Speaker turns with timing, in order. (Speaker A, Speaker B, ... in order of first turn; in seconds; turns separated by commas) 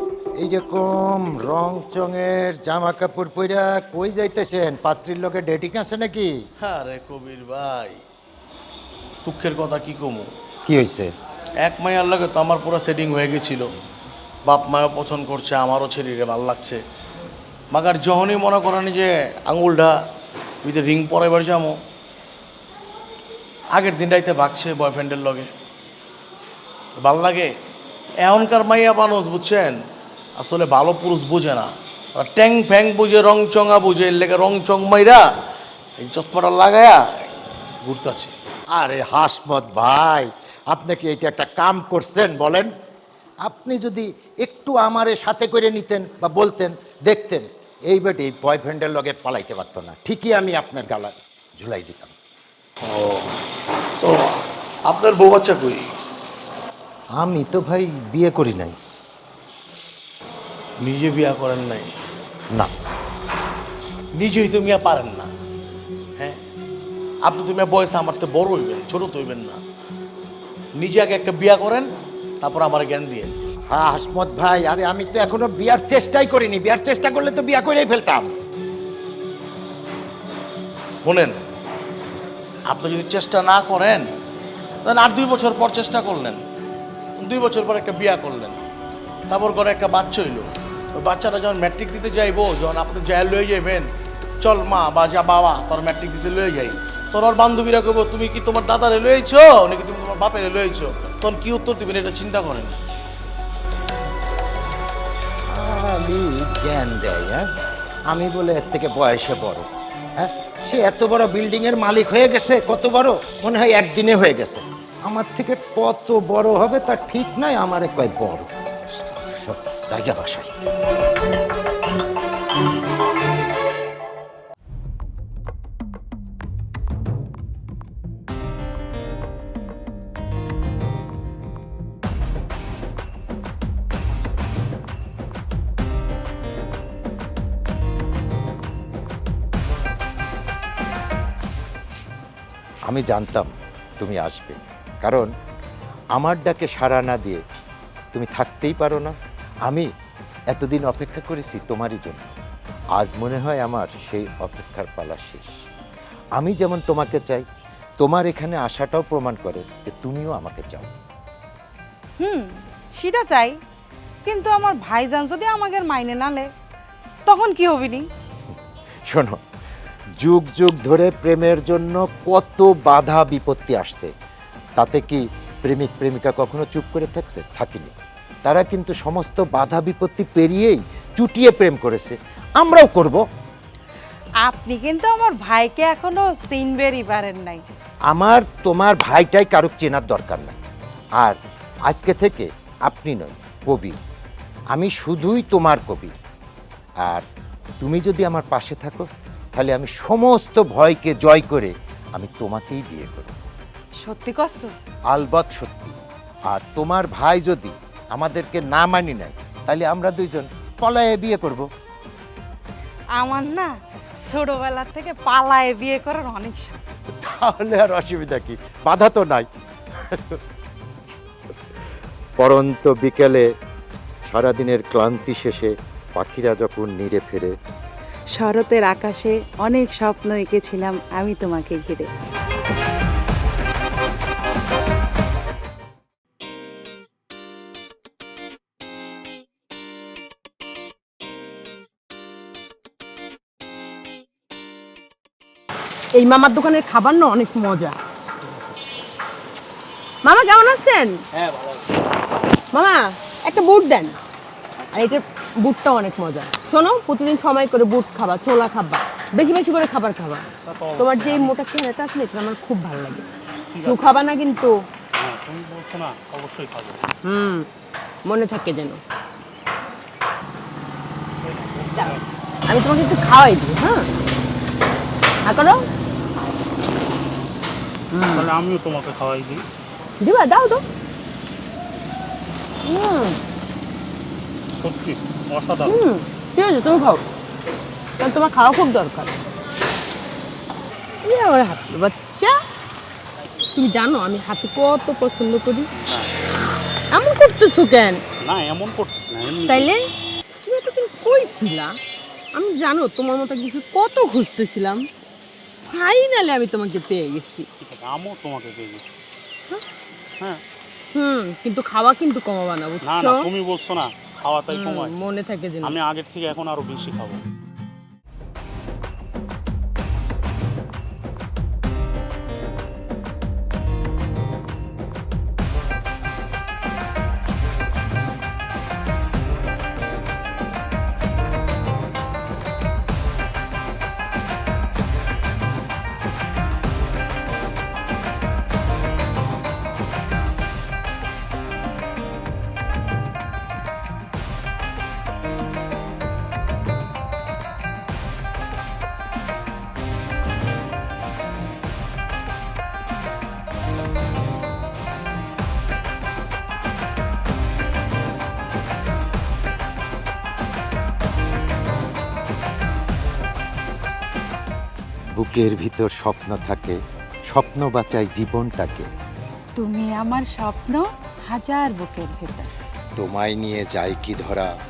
Speaker A: 0.3-6.3, Speaker B: 6.6-8.0, Speaker B: 9.2-10.3, Speaker A: 10.7-11.1, Speaker B: 11.6-13.7, Speaker B: 14.4-16.8, Speaker B: 17.7-20.0, Speaker B: 20.6-21.8, Speaker B: 23.7-25.5, Speaker B: 27.0-27.5, Speaker B: 28.2-29.8, Speaker B: 30.4-35.2, Speaker B: 36.0-37.0, Speaker B: 37.8-38.3, Speaker A: 38.7-42.7, Speaker A: 43.4-52.1, Speaker B: 52.8-53.3, Speaker B: 54.0-55.9, Speaker A: 57.1-58.8, Speaker B: 60.8-61.9, Speaker B: 64.1-65.3, Speaker B: 67.2-69.6, Speaker B: 70.8-71.9, Speaker B: 72.4-73.3, Speaker A: 73.7-78.3, Speaker B: 81.0-81.4, Speaker B: 82.7-84.1, Speaker B: 84.8-86.4, Speaker B: 87.2-88.6, Speaker B: 89.3-102.7, Speaker A: 105.5-107.5, Speaker A: 108.1-118.5, Speaker A: 119.1-120.5, Speaker A: 142.9-145.3, Speaker A: 146.1-147.4, Speaker A: 148.1-149.1, Speaker A: 150.5-152.3, Speaker A: 153.0-155.5, Speaker A: 156.4-157.5, Speaker A: 158.0-160.9, Speaker C: 162.2-163.6, Speaker C: 164.2-166.5, Speaker C: 167.2-168.0, Speaker A: 169.1-169.4, Speaker A: 170.2-174.1, Speaker A: 174.8-177.9, Speaker A: 178.4-183.2, Speaker C: 184.4-187.6, Speaker A: 188.1-190.6, Speaker A: 191.2-193.9, Speaker A: 194.7-196.1, Speaker A: 197.8-203.3, Speaker C: 204.0-204.7, Speaker A: 205.1-206.0, Speaker A: 206.5-211.7, Speaker C: 213.2-213.7, Speaker C: 214.2-216.8, Speaker A: 217.2-220.4, Speaker A: 222.4-223.4, Speaker A: 224.3-227.5, Speaker C: 228.3-232.1, Speaker D: 246.1-248.0, Speaker D: 250.2-251.2, Speaker D: 252.7-254.2, Speaker D: 254.9-263.3, Speaker E: 260.6-261.6, Speaker E: 263.7-264.1, Speaker D: 263.8-264.8, Speaker E: 265.1-267.1, Speaker D: 267.2-267.7, Speaker D: 268.2-269.0, Speaker E: 271.4-272.3, Speaker D: 271.9-274.1, Speaker D: 275.4-275.8, Speaker D: 278.1-278.5, Speaker E: 278.3-279.6, Speaker D: 280.2-280.8, Speaker D: 282.8-283.4, Speaker E: 284.8-286.0, Speaker D: 285.8-287.2, Speaker D: 288.2-289.4, Speaker D: 291.2-292.6, Speaker D: 293.7-295.9, Speaker E: 295.9-296.3, Speaker D: 297.1-298.2, Speaker E: 298.4-299.9, Speaker D: 299.6-300.0, Speaker D: 300.6-302.0, Speaker D: 302.5-305.0, Speaker D: 305.9-307.7, Speaker E: 307.8-309.1, Speaker D: 311.1-313.5, Speaker E: 313.0-315.1, Speaker D: 314.7-316.0, Speaker E: 315.8-317.4, Speaker A: 365.3-367.0, Speaker A: 367.5-369.1, Speaker C: 369.8-372.7, Speaker A: 373.1-374.7